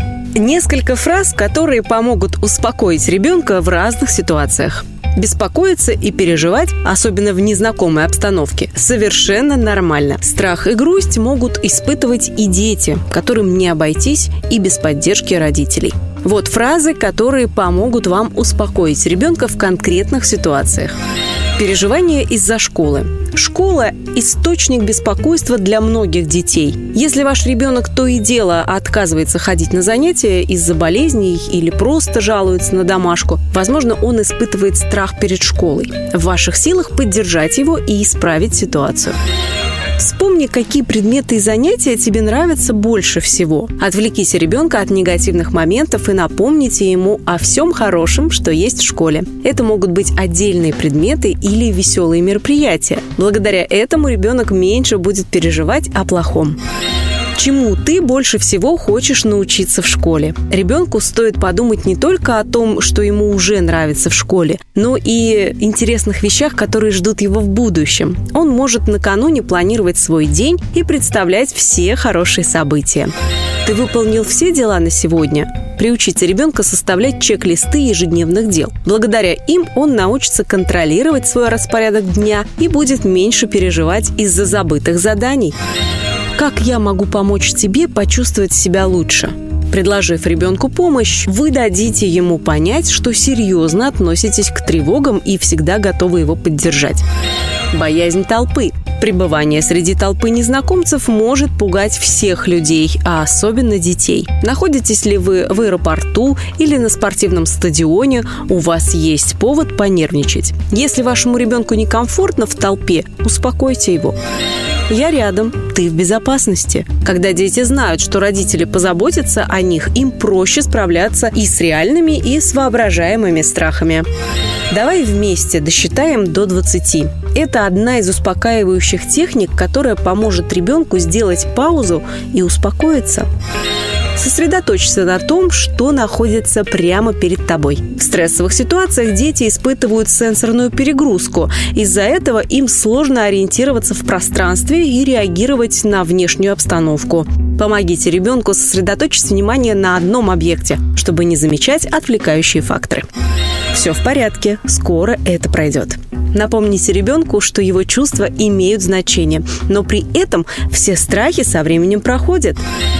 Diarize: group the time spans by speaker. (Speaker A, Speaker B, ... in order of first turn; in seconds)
Speaker A: 0.3-20.9, 21.6-39.2, 40.0-56.6, 57.3-73.1, 73.6-85.5, 86.3-97.0, 97.7-114.2, 114.9-124.1, 124.7-133.3, 134.1-153.1, 153.7-162.6